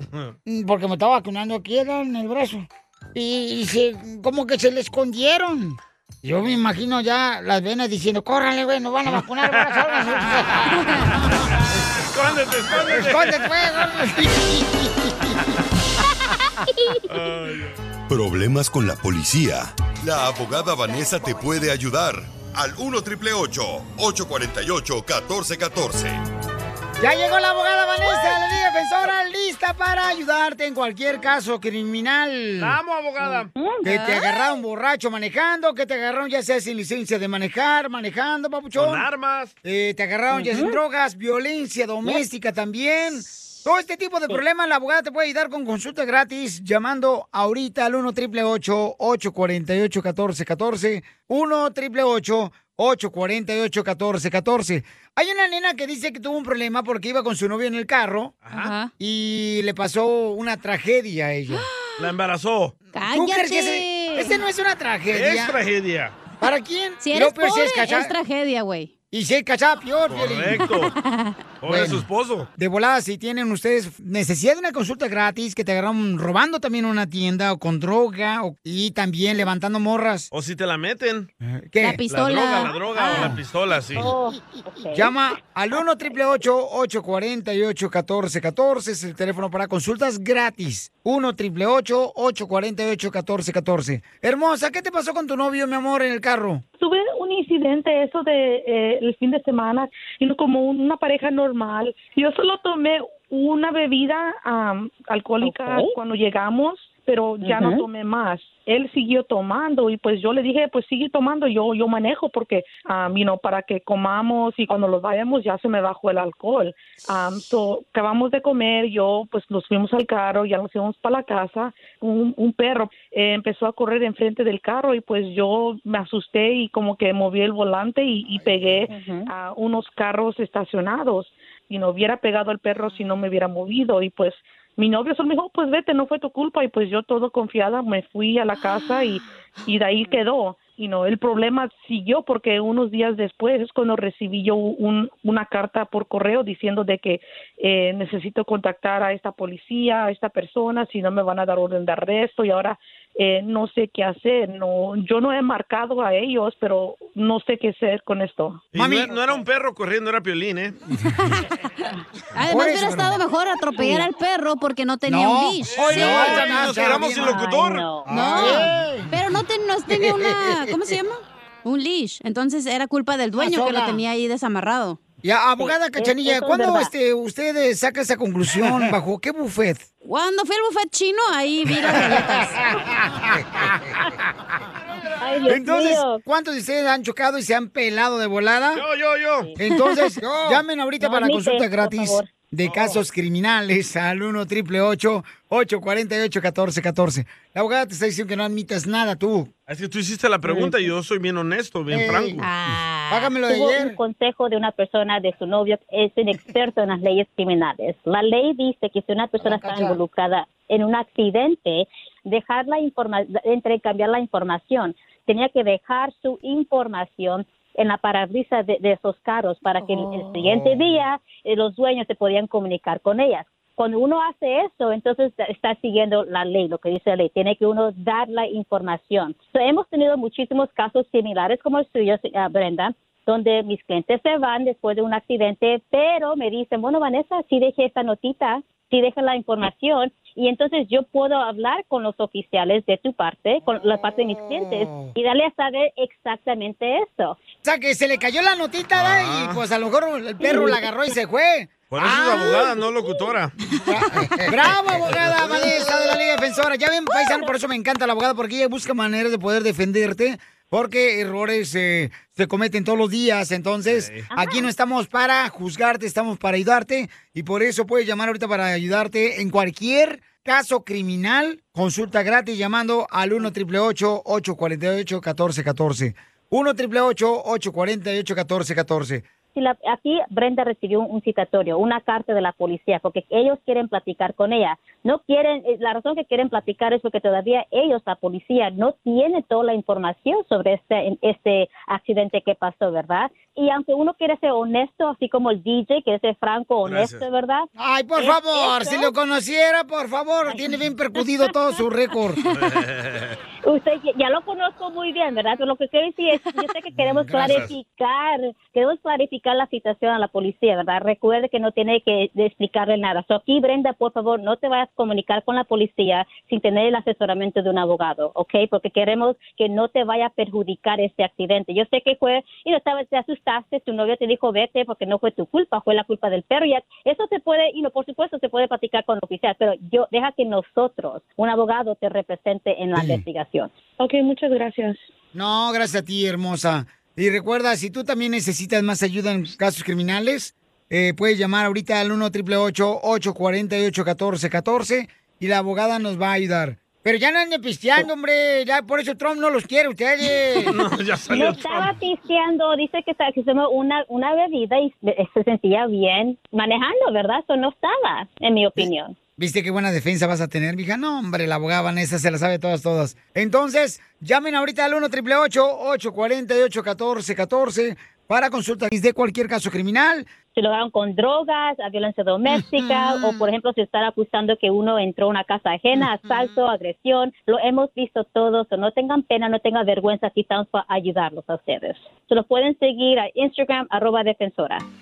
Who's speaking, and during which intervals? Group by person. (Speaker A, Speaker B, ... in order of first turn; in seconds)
Speaker A: 0.5-11.0, 12.8-15.6, 27.0-32.7, 33.8-39.0, 39.6-58.4, 59.0-61.6, 63.0-65.6, 66.4-68.1, 69.1-70.7, 71.7-72.0, 72.6-80.3, 81.4-82.0, 83.1-83.4, 84.9-96.6, 158.7-159.4, 160.9-161.3, 162.4-163.2, 163.8-164.0, 165.1-167.4, 168.1-169.2, 169.9-170.7, 173.3-174.0, 175.2-179.9, 181.9-184.1, 185.4-188.8, 189.6-199.5, 201.9-204.0, 209.4-210.0, 243.7-245.1, 247.6-252.6, 253.8-279.2, 297.8-302.4, 306.9-307.7, 332.9-333.2, 335.3-350.8, 358.8-370.3, 372.5-373.4
Speaker B: 9.2-10.7, 11.8-13.4, 17.1-17.8, 32.6-33.5, 38.7-39.5, 58.4-58.7, 62.0-62.7, 65.1-66.2, 70.1-70.9, 71.6-72.5, 80.3-81.3, 82.0-84.2, 158.7-160.8, 165.8-167.9, 188.7-189.5, 192.6-193.0, 199.7-202.5, 248.9-249.6, 251.9-253.5, 254.8-255.7, 263.9-264.2, 296.8-297.3, 302.5-303.4, 307.4-307.7, 350.6-352.0
Speaker C: 18.1-26.2
Speaker D: 33.8-34.3, 58.5-58.9, 61.5-62.0, 62.9-64.4, 67.0-68.9, 70.7-71.4, 81.8-83.4, 161.2-161.5, 162.3-167.0, 168.1-175.0, 180.0-182.5, 202.4-203.3
Speaker E: 40.3-40.7, 84.0-85.2, 107.4-107.8, 166.8-168.3, 175.6-176.9, 185.2-186.2, 190.5-192.3, 203.4-247.4, 264.3-264.6, 279.5-299.1, 303.6-333.7, 351.3-359.1, 370.6-384.8
Speaker F: 96.8-158.6, 334.0-335.0